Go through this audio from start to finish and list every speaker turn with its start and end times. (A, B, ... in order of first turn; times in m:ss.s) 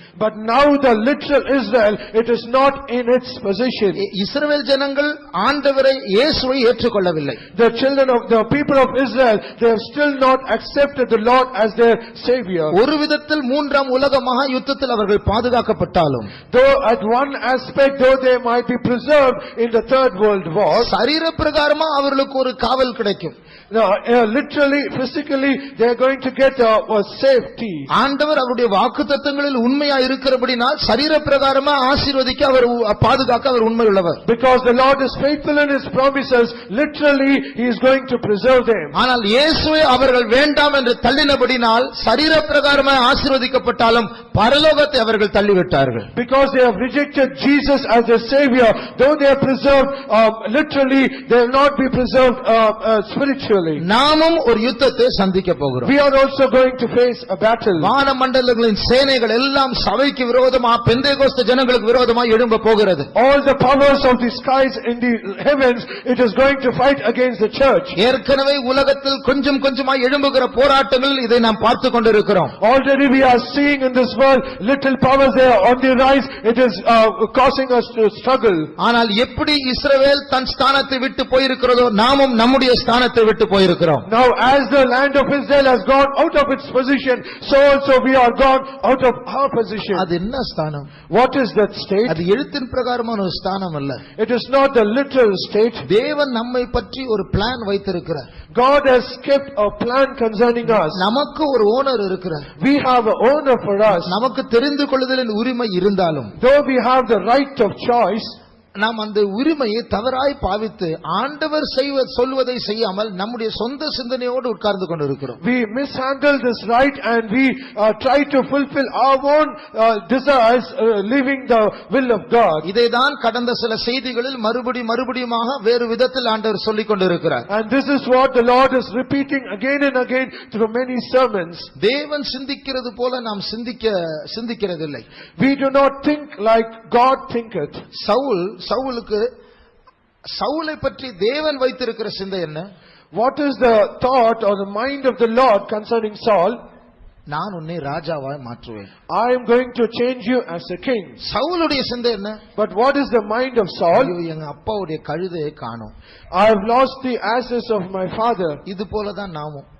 0:00.2-0:04.0 A
0:04.0-0:07.4 B
0:07.6-0:12.8 A
0:12.7-0:16.3 B
0:16.5-0:20.9 A
0:20.8-0:23.4 B
0:23.7-0:27.9 A
0:27.9-0:34.2 B
0:34.2-0:39.0 A
0:39.0-0:46.1 B
0:46.1-0:53.8 A
0:53.8-0:55.9 B
0:55.8-0:57.9 A
0:57.8-1:03.1 B
1:03.2-1:08.0 A
1:08.0-1:12.6 B
1:12.6-1:18.7 A
1:18.8-1:24.1 B
1:24.1-1:30.1 A
1:29.9-1:30.9 B
1:31.1-1:32.2 A
1:32.1-1:34.0 B
1:34.2-1:35.8 A
1:35.8-1:38.3 B
1:38.5-1:41.0 A
1:40.7-1:42.5 B
1:42.6-1:44.1 A
1:43.9-1:46.3 B
1:46.4-1:48.4 A
1:48.8-1:55.4 B
1:55.4-2:02.7 A
2:02.6-2:07.5 B
2:07.5-2:11.7 A
2:11.8-2:15.0 B
2:15.4-2:17.8 A
2:18.0-2:19.3 B
2:20.3-2:22.7 B
2:23.1-2:26.6 A
2:27.3-2:28.9 B
2:29.1-2:31.2 A
2:31.2-2:32.4 B
2:32.6-2:34.2 A
2:33.9-2:35.9 B
2:36.3-2:38.6 A
2:38.7-2:39.7 B